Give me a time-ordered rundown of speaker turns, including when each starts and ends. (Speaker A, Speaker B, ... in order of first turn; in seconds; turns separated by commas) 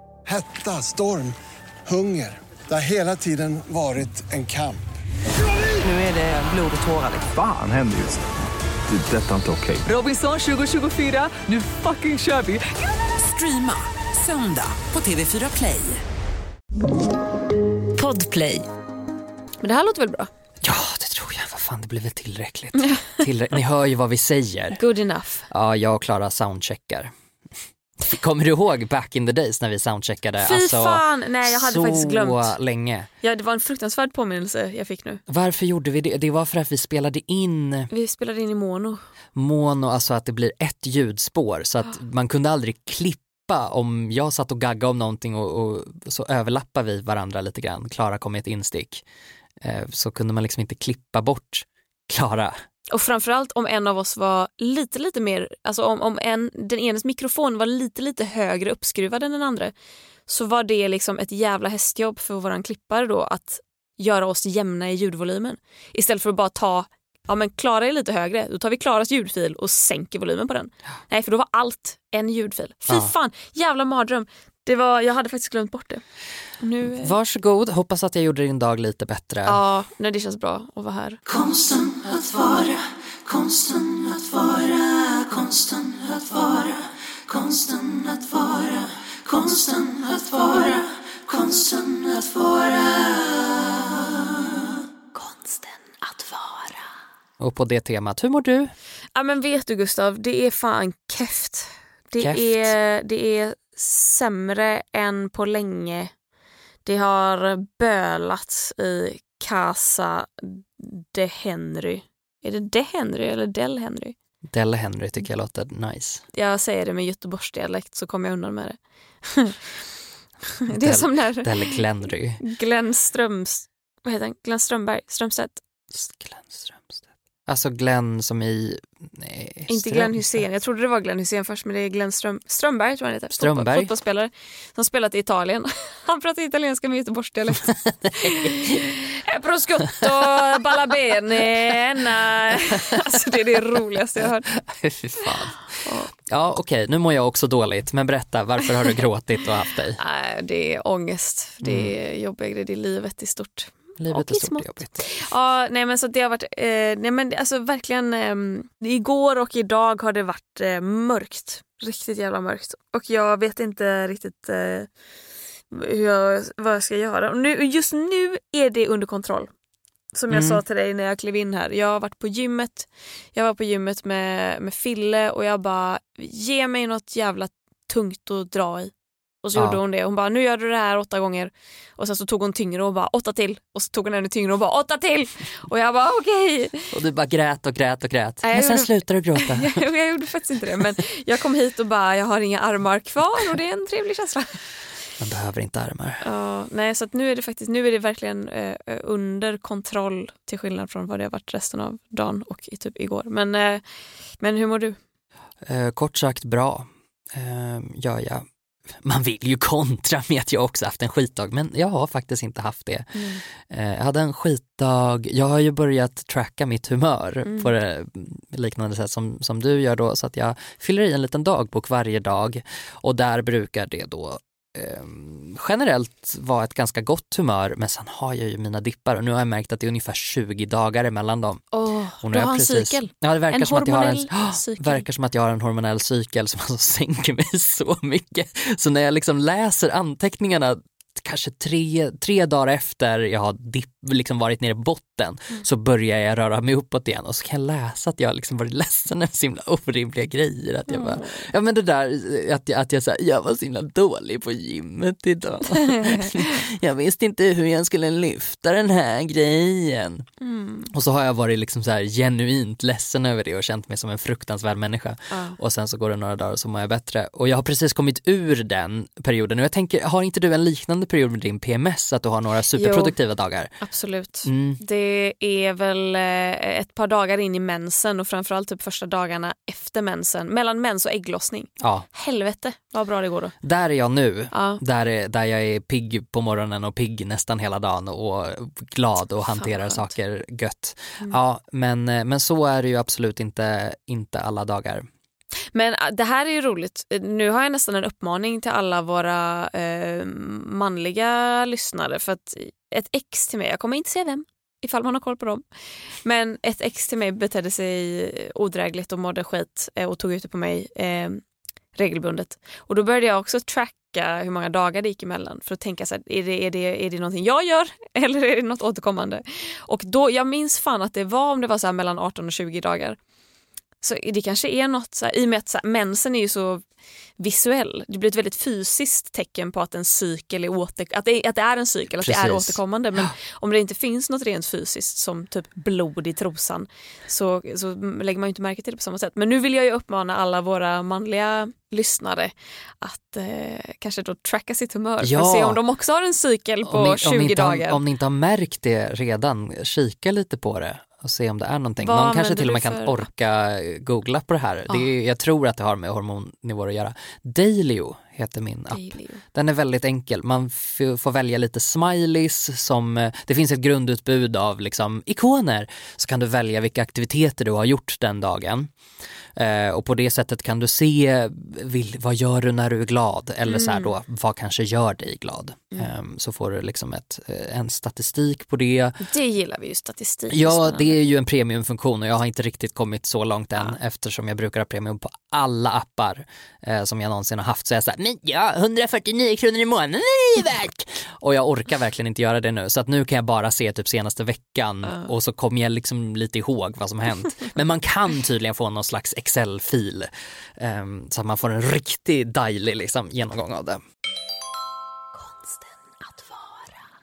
Speaker A: 0.2-1.4, Speaker A: 1.9-4.8, Speaker B: 5.8-7.3, Speaker C: 7.3-8.2, Speaker C: 8.9-9.9, Speaker B: 9.8-16.0, Speaker D: 17.9-18.6, Speaker E: 19.6-20.3, Speaker F: 20.6-24.8, Speaker E: 22.8-23.2, Speaker E: 24.7-25.5, Speaker F: 25.5-27.1, Speaker F: 28.0-33.1, Speaker E: 30.4-32.5, Speaker E: 33.2-35.2, Speaker F: 35.3-37.9, Speaker E: 37.9-39.0, Speaker F: 39.3-49.0, Speaker F: 49.6-52.5, Speaker E: 52.9-59.7, Speaker E: 60.3-76.0, Speaker E: 76.6-77.1, Speaker F: 76.8-79.6, Speaker E: 79.5-81.2, Speaker F: 81.2-93.8, Speaker D: 95.2-96.7, Speaker F: 97.4-98.7, Speaker E: 99.1-106.1, Speaker F: 102.2-102.7, Speaker E: 106.8-114.1, Speaker F: 114.5-116.2, Speaker E: 116.3-119.6, Speaker E: 120.6-121.8, Speaker F: 120.7-122.4, Speaker E: 122.4-125.6, Speaker F: 125.9-130.4, Speaker E: 129.7-144.5, Speaker F: 133.3-133.9, Speaker F: 137.7-138.8, Speaker F: 140.0-140.6, Speaker F: 144.2-150.0, Speaker E: 145.8-146.1, Speaker E: 150.0-164.9, Speaker F: 151.6-151.9, Speaker F: 154.0-155.2, Speaker E: 165.7-169.5, Speaker E: 170.1-178.9, Speaker F: 170.3-170.6, Speaker E: 179.4-186.9, Speaker F: 179.5-179.8, Speaker F: 186.9-189.8, Speaker E: 188.4-194.6, Speaker F: 195.2-196.2, Speaker E: 196.2-203.8, Speaker E: 204.4-205.0, Speaker F: 205.6-231.6, Speaker E: 213.1-213.4, Speaker E: 217.4-217.7, Speaker E: 231.7-235.0, Speaker F: 232.2-260.2, Speaker E: 250.9-251.4, Speaker E: 255.7-256.6, Speaker E: 260.4-260.9, Speaker F: 260.9-273.7, Speaker E: 265.3-265.6, Speaker E: 272.8-273.1, Speaker E: 273.8-283.5, Speaker F: 274.4-274.8, Speaker F: 281.8-282.1, Speaker F: 283.6-295.1, Speaker E: 284.5-284.8, Speaker E: 289.5-290.1, Speaker E: 295.7-305.6, Speaker E: 306.2-311.4, Speaker E: 311.9-323.2, Speaker E: 324.0-326.8, Speaker E: 327.4-348.0, Speaker F: 332.2-333.3, Speaker F: 345.2-345.8, Speaker F: 346.9-368.9, Speaker E: 352.0-353.2, Speaker E: 358.9-359.4, Speaker F: 369.5-379.2, Speaker E: 373.7-374.1, Speaker E: 379.2-381.1, Speaker F: 380.5-404.0, Speaker D: 405.4-406.9